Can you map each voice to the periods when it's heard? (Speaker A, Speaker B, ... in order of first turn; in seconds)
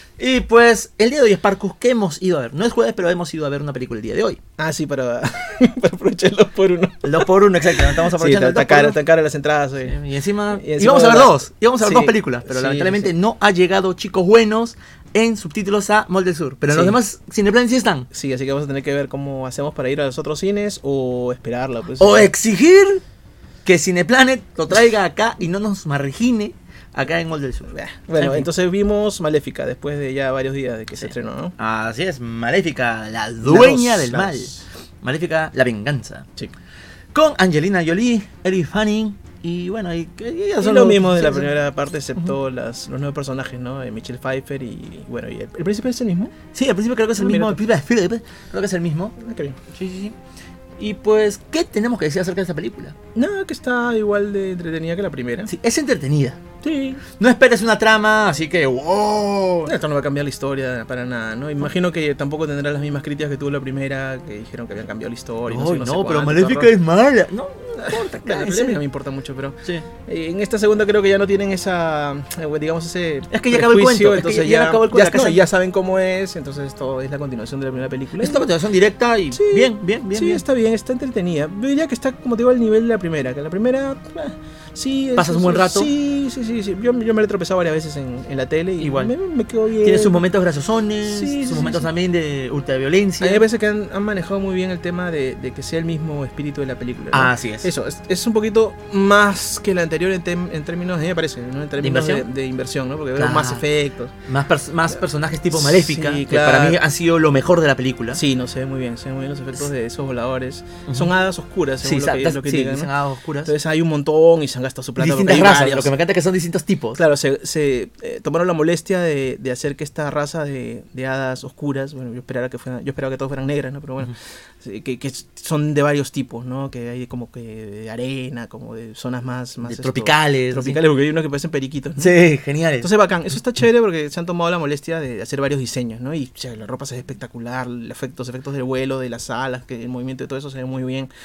Speaker A: 0.2-4.4, 7.0-9.0, 9.8-18.1, 22.0-23.0, 23.6-28.5, 31.0-36.2, 37.1-41.5, 46.5-49.1, 49.7-50.1, 50.8-52.9, 55.5-56.4, 57.2-59.7, 65.5-68.8, 73.3-75.4, 78.2-80.4, 85.2-85.9, 88.8-89.1, 89.8-93.4, 97.1-97.7, 101.8-102.2, 103.2-103.6, 104.3-108.2, 111.8-113.5, 115.0-117.0, 129.6-130.8, 132.0-132.9
Speaker B: 4.6-10.0, 10.5-13.1, 16.7-17.0, 18.1-22.3, 27.7-31.5, 33.4-34.6, 40.6-46.3, 47.2-47.6, 49.2-49.6, 53.1-55.5, 56.6-57.0, 59.6-66.7, 67.8-78.5, 79.3-90.2, 91.0-91.9, 93.2-104.1, 105.5-106.8, 108.1-112.9, 113.4-115.9, 116.9-132.2, 132.8-141.1